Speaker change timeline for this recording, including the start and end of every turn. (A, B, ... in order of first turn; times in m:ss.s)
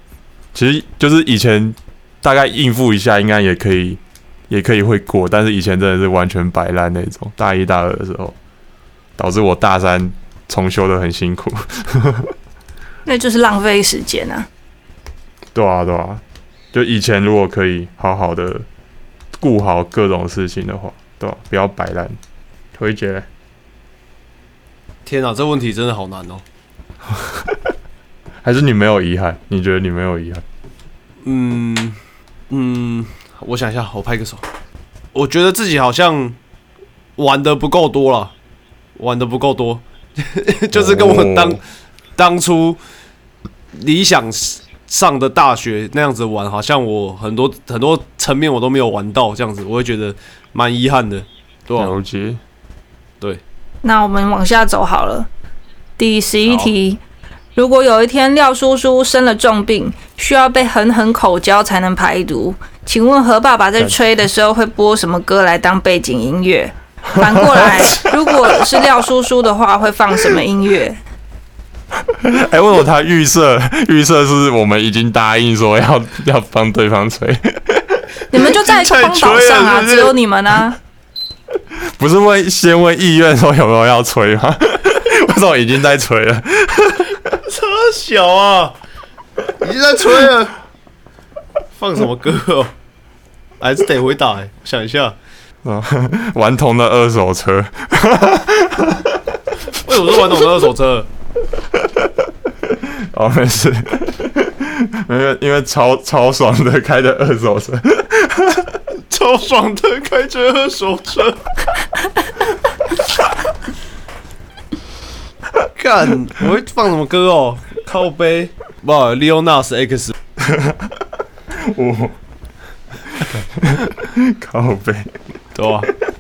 0:00.5-0:08.4 A
0:09.2-0:12.3 A
0:13.1-0:14.5 B
0:15.5-0:16.2 A
0:16.7-0:18.7 A
0:19.4-0:22.2 A
0:22.8-0:23.3 A
0:25.1-0:26.4 C
0:27.1-0:27.6 A
0:28.4-0:30.4 A
0:31.2-0:32.0 C
0:32.5-0:34.4 C
0:35.1-0:36.4 C
0:37.2-0:38.3 C
0:39.0-0:41.6 C
0:40.7-0:41.6 A
0:42.2-0:42.8 C
0:43.7-0:52.0 C
0:51.8-0:52.4 A
0:53.8-0:55.3 B
0:56.0-0:57.0 B
0:56.5-0:56.7 C
0:57.6-1:11.0 B
1:07.2-1:08.9 A
1:12.0-1:18.1 A
1:18.3-1:20.8 B
1:18.4-1:20.2 C
1:21.8-1:27.4 A
1:27.5-1:28.8 C
1:29.6-1:30.6 C
1:31.8-1:32.7 C
1:33.6-1:35.2 C
1:35.6-1:39.4 A
1:39.8-1:41.1 C
1:41.8-1:42.1 A
1:42.6-1:48.8 A
1:49.1-1:51.5 C
1:55.8-2:00.1 C
2:00.4-2:02.2 A
2:03.1-2:05.2 A
2:05.6-2:05.9 C